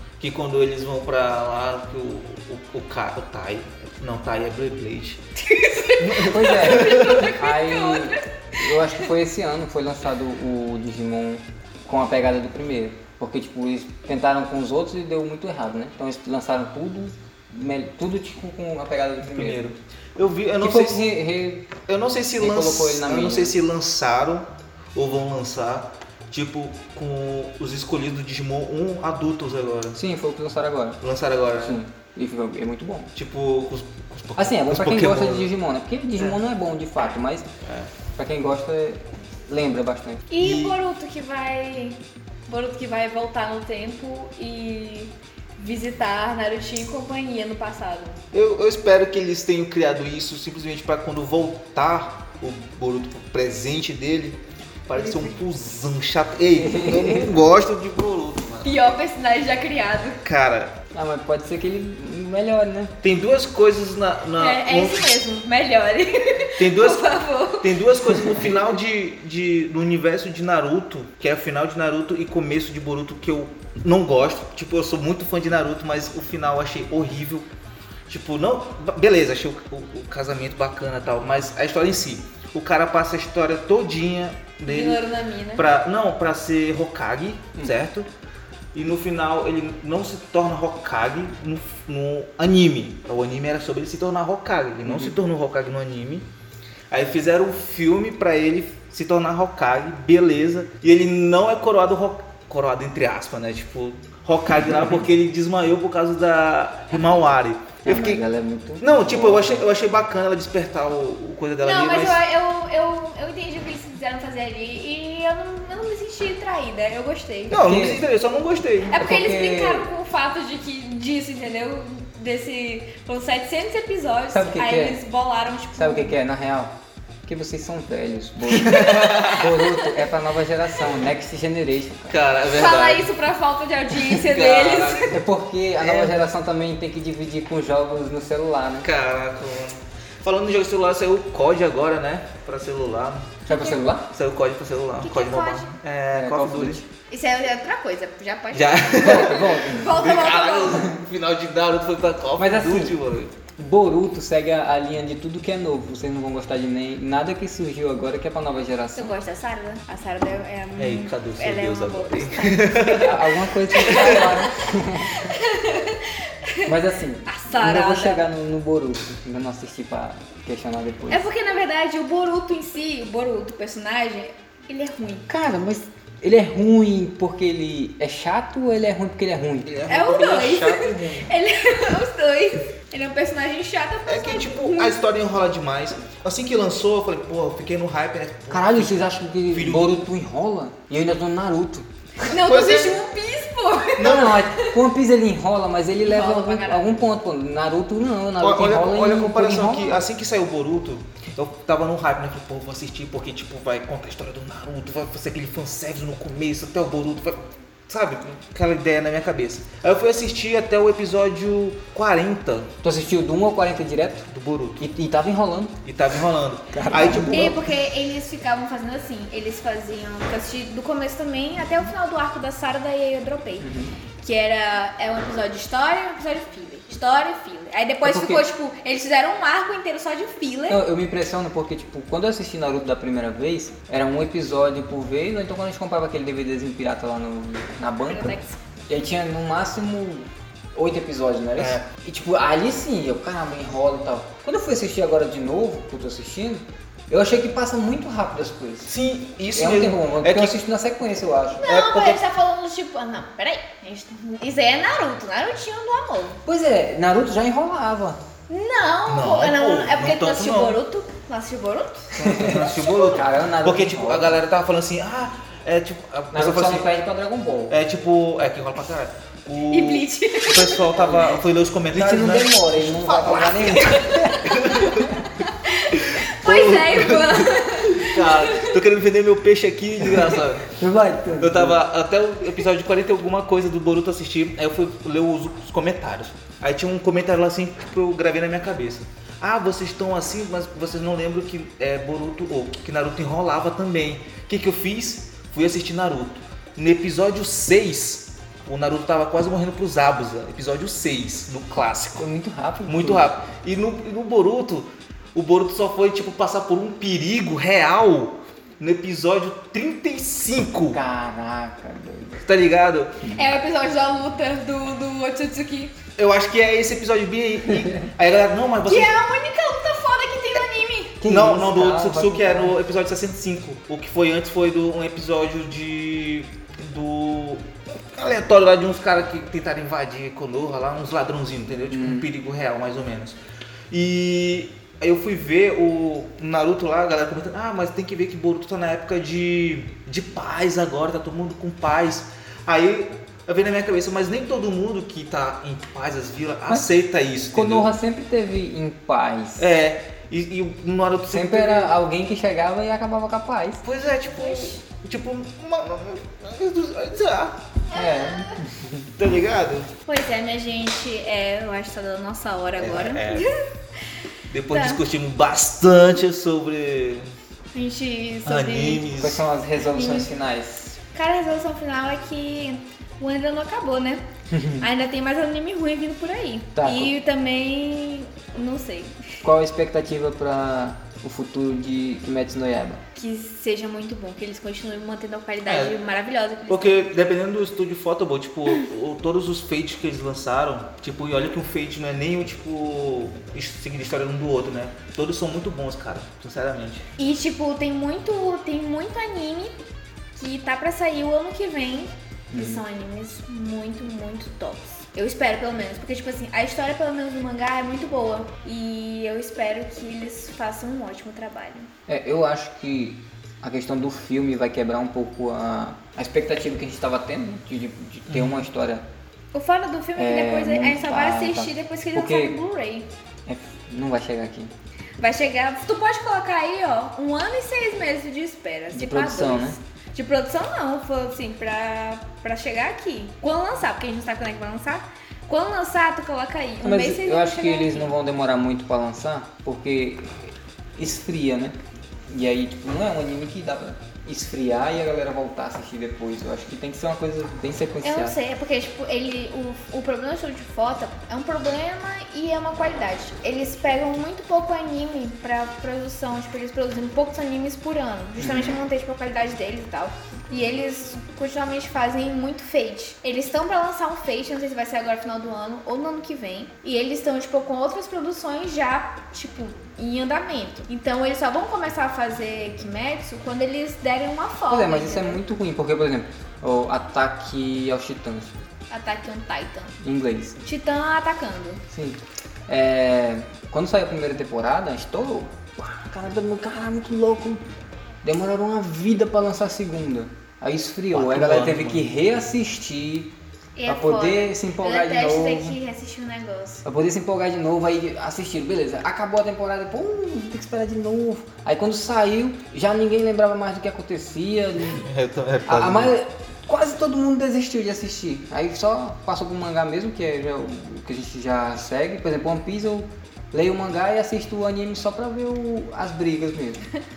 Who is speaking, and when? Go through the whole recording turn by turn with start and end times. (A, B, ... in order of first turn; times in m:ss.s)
0:00.2-0:05.2 A
0:05.4-0:09.0 B
0:06.0-0:07.3 A
0:06.2-0:19.6 C
0:19.2-0:21.1 A
0:20.6-0:21.8 C
0:21.9-0:30.0 A
0:22.4-0:23.6 C
0:30.0-0:31.0 C
0:31.0-0:31.8 A
0:31.6-0:33.1 C
0:33.2-0:35.5 A
0:34.4-0:37.5 C
0:37.6-0:37.9 A
0:38.2-0:40.3 C
0:40.3-0:48.2 B
0:40.4-0:40.8 A
0:48.3-0:58.8 A
0:55.0-0:55.3 B
0:56.6-0:57.3 C
0:58.6-1:00.2 B
1:00.2-1:00.8 A
1:00.9-1:03.0 C
1:03.0-1:05.1 A
1:04.4-1:07.8 B
1:06.6-1:17.5 A
1:18.1-1:25.0 A
1:24.6-1:25.7 B
1:25.6-1:28.1 A
1:28.7-1:36.3 A
1:34.9-1:35.1 C
1:36.9-1:48.2 A
1:47.8-1:49.6 C
1:48.8-1:52.2 A
1:51.6-1:57.6 B
1:57.5-1:59.0 A
1:57.5-1:58.0 C
1:58.9-2:06.1 B
1:59.0-1:59.9 C
2:04.3-2:05.0 C
2:05.8-2:06.7 C
2:07.3-2:12.2 C
2:08.5-2:09.5 A
2:09.4-2:09.9 B
2:12.1-2:13.1 A
2:12.5-2:15.1 B
2:14.0-2:15.2 A
2:15.1-2:18.9 C
2:15.8-2:16.2 A
2:18.8-2:23.4 A
2:23.5-2:24.1 C
2:23.5-2:23.8 B
2:24.1-2:26.8 A
2:25.0-2:25.7 B
2:26.1-2:26.9 C
2:27.1-2:30.9 B
2:28.5-2:33.4 A
2:29.0-2:29.9 C
2:32.4-2:33.0 C
2:33.6-2:39.2 C
2:39.0-2:43.1 B
2:40.8-2:43.3 A
2:43.0-2:45.3 C
2:43.7-2:46.7 B
2:46.6-2:51.3 C
2:47.3-2:48.2 B
2:51.1-2:55.3 B
2:55.3-2:59.7 C
2:59.6-3:01.3 A
2:59.9-3:05.0 B
3:04.1-3:09.9 A
3:08.5-3:12.3 C
3:12.2-3:14.7 B
3:12.4-3:13.0 A
3:14.0-3:14.4 A
3:14.0-3:20.0 C
3:16.0-3:17.0 B
3:18.4-3:32.7 A
3:32.8-3:34.3 C
3:34.3-3:34.9 A
3:34.8-3:35.8 C
3:35.8-3:37.6 A
3:36.7-3:37.6 C
3:37.3-3:43.7 B
3:43.6-3:43.9 C
3:44.2-3:50.8 B
3:48.0-3:48.4 C
3:50.7-3:58.4 C
3:58.0-3:58.6 B
3:58.9-4:08.9 C
4:01.6-4:01.8 A
4:08.9-4:10.6 A
4:09.5-4:11.6 C
4:11.6-4:16.4 B
4:11.6-4:12.2 A
4:16.5-4:18.2 C
4:18.5-4:22.1 B
4:19.1-4:20.8 A
4:22.2-4:26.9 A
4:22.2-4:24.4 C
4:22.7-4:23.2 B
4:26.3-4:27.8 C
4:27.7-4:35.0 A
4:29.7-4:30.8 B
4:30.9-4:35.1 C
4:33.5-4:38.8 B
4:36.1-4:40.7 A
4:40.7-4:41.8 C
4:41.4-5:02.3 A
5:02.2-5:03.2 C
5:02.9-5:11.0 A
5:10.9-5:12.4 C
5:12.4-5:13.3 A
5:13.3-5:15.9 B
5:16.2-5:19.1 A
5:18.9-5:21.2 B
5:21.2-5:22.7 C
5:21.3-5:33.4 A
5:31.9-5:32.3 C
5:33.9-5:47.9 A
5:47.5-5:49.7 C
5:49.6-5:52.0 A
5:51.3-5:53.8 C
5:53.8-5:57.6 A
5:54.4-5:54.8 B
5:57.9-5:58.6 B
5:57.9-5:59.1 C
5:59.2-5:59.9 A
6:00.1-6:03.6 B
6:02.8-6:03.5 A
6:04.5-6:07.3 A
6:04.7-6:05.0 B
6:07.7-6:09.0 B
6:08.4-6:09.4 A
6:09.2-6:11.0 C
6:10.0-6:10.3 B
6:11.1-6:14.2 B
6:14.5-6:14.8 C
6:14.8-6:19.2 B
6:16.8-6:17.1 C
6:19.4-6:23.0 C
6:23.2-6:27.1 B
6:25.6-6:26.0 A
6:26.7-6:37.1 A
6:37.2-6:39.8 B
6:40.4-6:51.9 B
6:42.5-6:42.8 C
6:52.1-6:59.0 C
6:58.3-6:58.7 A
6:59.5-7:03.1 B
7:00.2-7:02.6 C
7:03.5-7:04.7 C
7:05.2-7:18.1 B
7:08.9-7:09.8 C
7:16.8-7:21.8 C
7:22.3-7:28.4 C
7:28.0-7:55.4 B
7:38.4-7:38.8 C
7:54.7-7:58.5 C
7:58.9-8:00.0 B
8:00.0-8:00.6 C
8:00.6-8:01.8 B
8:01.9-8:07.6 C
8:08.2-8:13.3 C
8:11.1-8:12.1 A
8:13.8-8:16.8 B
8:13.9-8:15.8 C
8:16.8-8:25.1 C
8:25.0-8:26.1 A
8:25.7-8:36.8 C